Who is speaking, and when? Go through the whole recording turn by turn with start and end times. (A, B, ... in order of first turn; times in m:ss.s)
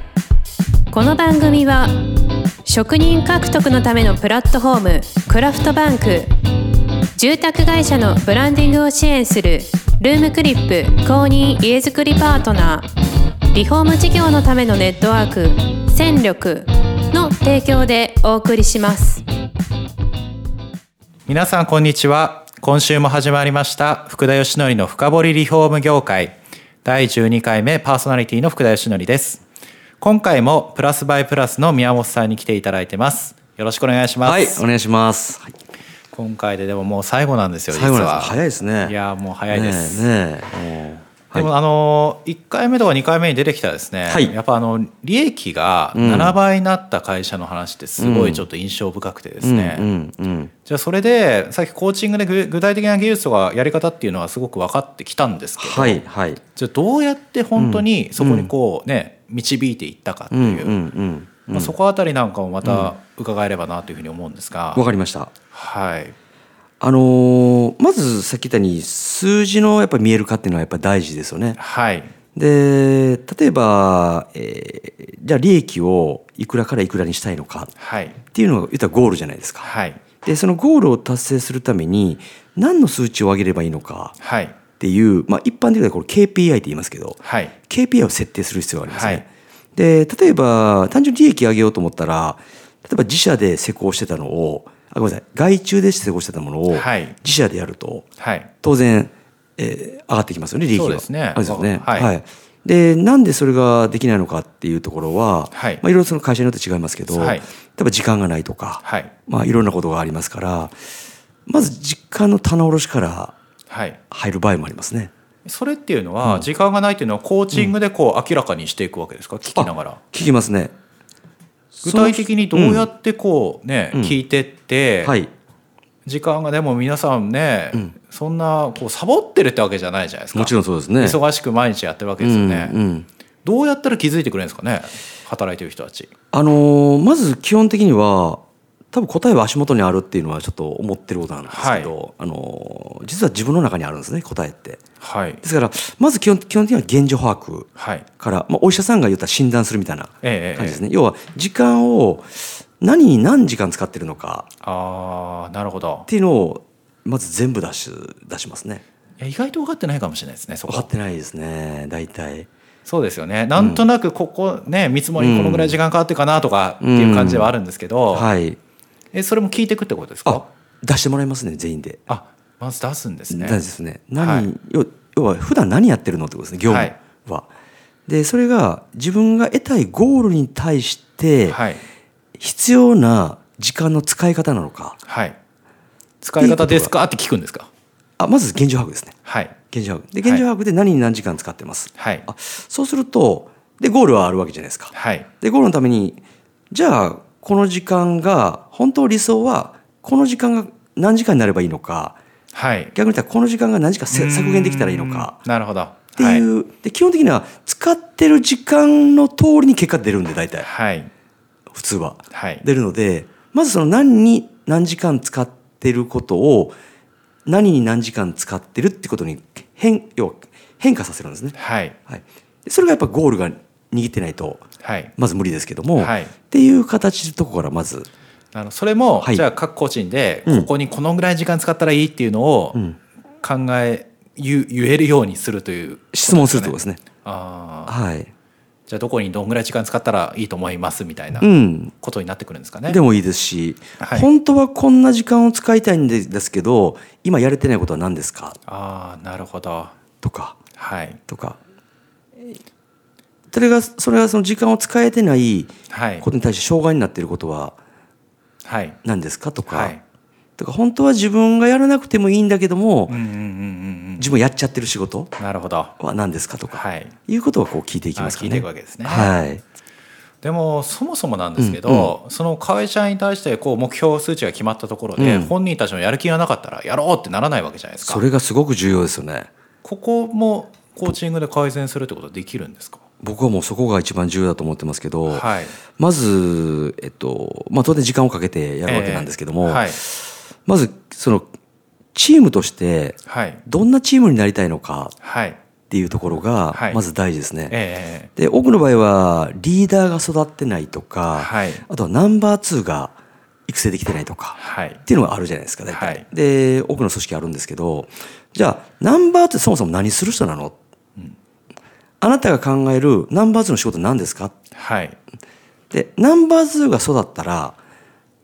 0:00.9-0:01.9 A
0:02.6-0:06.3 A
0:07.2-0:12.9 A
0:13.5-0:19.2 A
0:21.3-0:29.4 B
0:30.0-0:34.6 B
0:34.2-0:35.5 C
0:36.1-0:40.1 B
0:37.7-0:39.0 C
0:39.5-0:41.5 C
0:41.3-0:49.9 B
0:44.1-0:44.3 C
0:45.9-0:46.3 C
0:48.0-0:48.5 C
0:49.4-0:50.5 C
0:50.6-0:56.0 B
0:55.6-0:56.4 C
0:56.5-1:00.8 B
0:57.6-0:58.5 C
1:00.3-1:01.7 C
1:01.5-1:04.8 B
1:02.6-1:02.9 C
1:04.7-1:05.3 C
1:05.5-1:06.1 B
1:06.8-1:11.6 C
1:11.6-1:12.1 B
1:12.3-1:17.7 C
1:17.8-1:18.2 B
1:18.3-1:19.7 C
1:19.6-1:20.0 B
1:20.2-1:24.1 C
1:24.2-1:24.6 B
1:24.8-1:38.1 C
1:27.2-1:27.5 B
1:28.9-1:29.2 B
1:36.7-1:37.2 B
1:38.2-1:38.5 B
1:38.6-1:50.7 C
1:40.7-1:42.1 B
1:45.5-1:45.8 B
1:47.1-1:47.5 B
1:48.8-1:49.1 B
1:51.4-1:53.3 C
1:53.7-1:54.0 B
1:54.1-1:55.1 C
1:55.4-2:00.0 B
1:59.5-2:00.7 C
2:01.7-2:02.9 C
2:01.8-2:05.2 B
2:03.9-2:04.2 C
2:05.0-2:05.3 C
2:06.0-2:12.8 B
2:10.3-2:11.2 C
2:12.2-2:13.1 C
2:13.4-2:16.1 B
2:16.3-2:24.8 C
2:21.5-2:21.9 B
2:25.0-2:25.4 B
2:25.4-2:27.7 C
2:27.8-2:28.1 B
2:28.2-2:34.5 C
2:30.2-2:30.8 B
2:34.6-2:36.1 B
2:36.1-2:38.8 C
2:39.2-2:40.9 B
2:40.7-2:42.5 C
2:42.8-2:48.3 B
2:43.6-2:43.8 C
2:45.2-2:45.8 C
2:46.8-2:47.5 C
2:48.1-2:48.6 C
2:49.1-2:50.4 B
2:50.2-2:52.0 C
2:52.1-2:53.6 B
2:53.3-2:57.5 C
2:54.2-2:54.5 B
2:56.7-2:57.0 B
2:58.1-3:01.6 C
3:01.5-3:01.8 B
3:02.4-3:05.0 C
3:05.0-3:05.4 B
3:06.2-3:07.7 B
3:06.4-3:06.9 C
3:08.2-3:09.1 C
3:09.2-3:09.6 B
3:09.7-3:22.2 C
3:12.0-3:12.2 B
3:14.9-3:15.3 B
3:22.5-3:22.9 B
3:22.9-3:25.4 C
3:24.1-3:26.5 B
3:26.2-3:30.7 C
3:30.6-3:31.1 B
3:31.7-3:36.8 C
3:32.3-3:32.6 B
3:37.4-3:44.6 C
3:41.5-3:42.0 B
3:44.8-3:45.1 B
3:45.2-3:48.1 C
3:46.0-3:46.3 B
3:48.5-3:52.8 B
3:53.4-3:58.0 B
3:56.1-3:57.0 C
3:57.9-3:58.3 C
3:58.9-4:03.0 B
4:01.4-4:01.9 C
4:02.9-4:08.6 C
4:04.0-4:04.3 B
4:08.6-4:09.9 B
4:10.2-4:10.6 C
4:10.7-4:11.2 B
4:11.3-4:11.6 C
4:13.5-4:17.8 C
4:15.9-4:16.2 B
4:18.6-4:19.0 B
4:19.0-4:19.9 C
4:19.7-4:20.0 B
4:20.6-4:23.2 C
4:23.1-4:24.3 B
4:24.2-4:25.3 C
4:25.4-4:25.9 B
4:26.0-4:29.6 C
4:26.7-4:27.1 B
4:28.2-4:29.3 B
4:30.4-4:38.2 B
4:31.6-4:32.1 C
4:35.2-4:35.5 C
4:38.0-4:39.5 C
4:39.8-4:43.0 B
4:43.2-4:45.5 C
4:45.3-4:45.8 B
4:46.0-4:51.4 C
4:48.8-4:50.0 B
4:52.1-4:55.1 C
4:53.2-4:53.6 B
4:55.2-4:55.6 B
4:55.9-4:57.8 C
4:56.7-4:57.0 B
4:57.7-4:58.3 B
4:58.4-5:03.2 C
5:01.3-5:01.8 B
5:03.7-5:10.8 C
5:04.6-5:05.0 B
5:05.9-5:06.2 B
5:12.2-5:14.5 C
5:14.7-5:15.2 B
5:15.9-5:17.8 C